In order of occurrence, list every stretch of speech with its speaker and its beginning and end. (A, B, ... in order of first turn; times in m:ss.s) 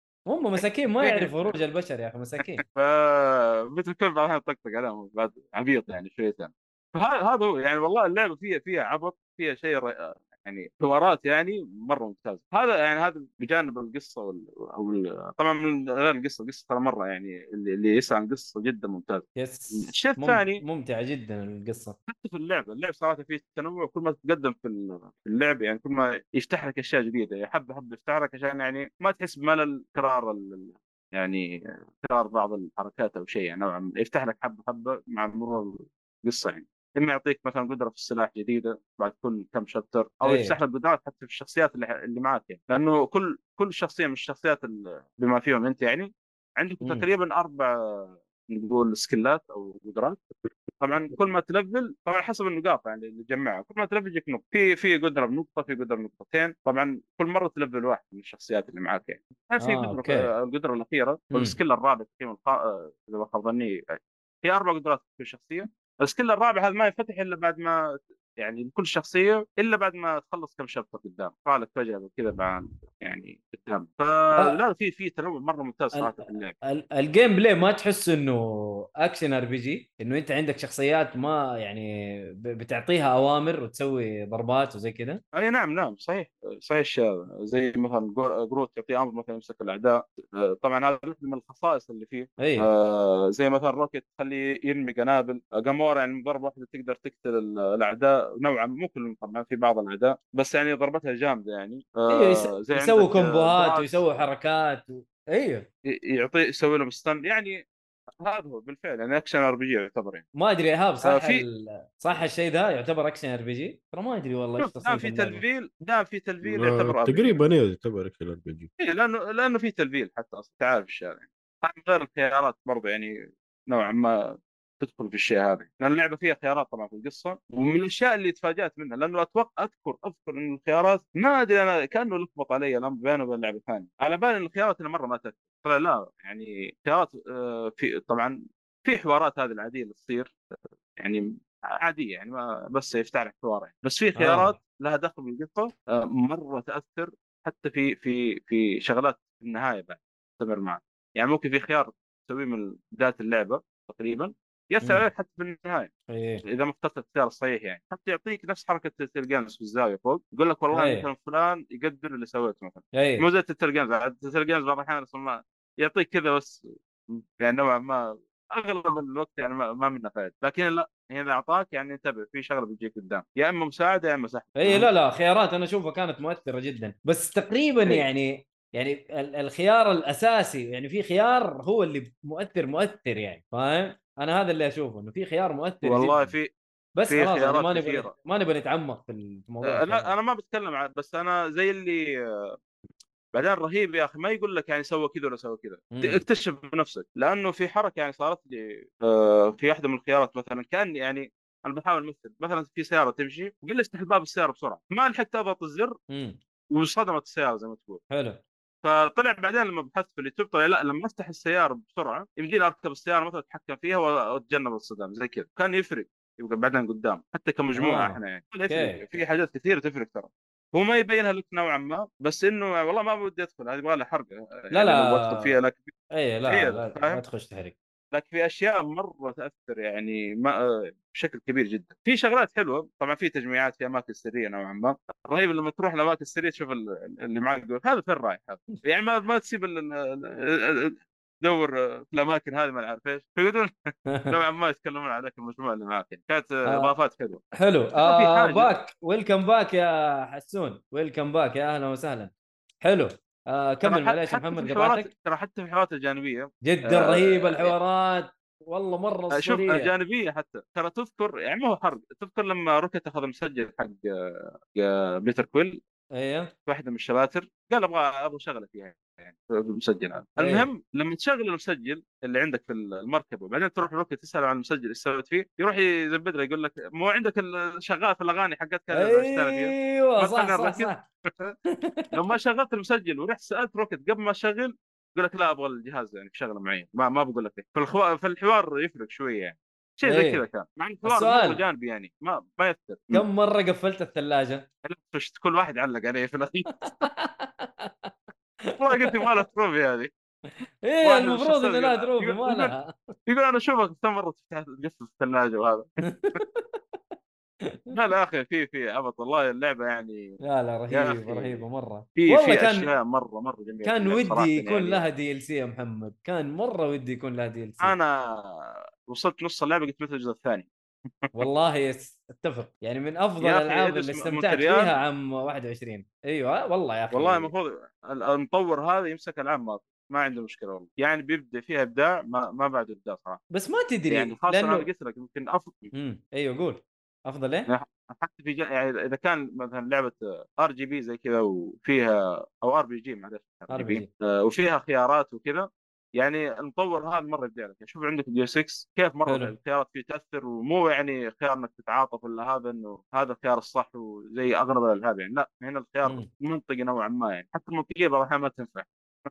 0:00.3-0:02.6 A
0:01.0-0:01.5 B
0:02.7-0:20.6 B
0:19.4-0:22.0 A
0:22.1-0:50.2 B
0:40.2-0:40.6 A
0:46.8-0:47.1 A
0:50.8-1:16.6 B
0:59.6-1:00.3 A
1:16.0-1:25.2 A
1:25.3-1:44.0 B
1:32.4-1:32.7 A
1:42.1-1:45.7 A
1:45.9-1:47.6 B
1:48.2-1:50.2 B
1:50.4-1:55.4 A
1:51.0-1:51.4 B
1:54.6-1:57.4 B
1:56.4-1:58.7 C
1:58.8-2:03.1 B
2:03.7-2:04.2 B
2:04.8-2:20.3 B
2:21.8-2:35.9 B
2:24.2-2:24.6 A
2:36.1-2:36.4 A
2:36.5-2:54.9 B
2:40.7-2:41.1 A
2:43.0-2:43.3 A
2:54.6-3:06.3 A
3:05.8-3:06.5 B
3:07.0-3:10.1 A
3:07.1-3:08.1 B
3:09.6-3:12.5 B
3:13.3-3:25.9 B
3:15.9-3:16.2 A
3:26.1-3:26.4 A
3:26.7-3:28.0 B
3:28.1-3:28.4 A
3:28.8-3:45.9 B
3:37.8-3:39.0 A
3:44.7-3:45.5 A
3:46.1-3:47.8 A
3:46.5-3:47.2 B
3:48.1-4:03.7 B
4:04.3-4:07.4 B
4:06.7-4:06.9 A
4:07.6-4:12.3 A
4:08.0-4:08.7 B
4:12.8-4:15.1 A
4:13.8-4:17.7 B
4:16.6-4:19.9 A
4:19.3-4:24.1 B
4:24.8-4:25.8 B
4:26.2-4:26.5 A
4:26.7-4:41.5 B
4:30.4-4:30.7 A
4:38.9-4:41.0 A
4:41.7-4:42.1 A
4:42.1-4:53.3 B
4:50.1-4:50.4 A
4:51.0-4:51.6 A
4:53.1-4:54.6 A
4:54.9-4:57.0 B
4:56.8-4:58.1 A
4:58.7-4:59.3 A
4:58.8-5:00.1 B
5:00.8-5:03.1 A
5:01.0-5:02.7 B
5:03.3-5:06.4 B
5:06.1-5:06.6 A
5:07.6-5:07.9 A
5:07.9-5:10.3 B
5:10.4-5:12.9 A
5:10.9-5:11.6 B
5:12.2-5:15.0 B
5:13.8-5:18.0 A
5:17.8-5:20.7 B
5:21.4-5:27.5 A
5:23.4-5:25.0 B
5:27.1-5:33.4 B
5:33.5-5:34.9 A
5:34.1-5:35.9 B
5:35.9-5:37.7 A
5:37.7-5:58.9 B
5:43.7-5:44.1 A
5:49.3-5:49.6 A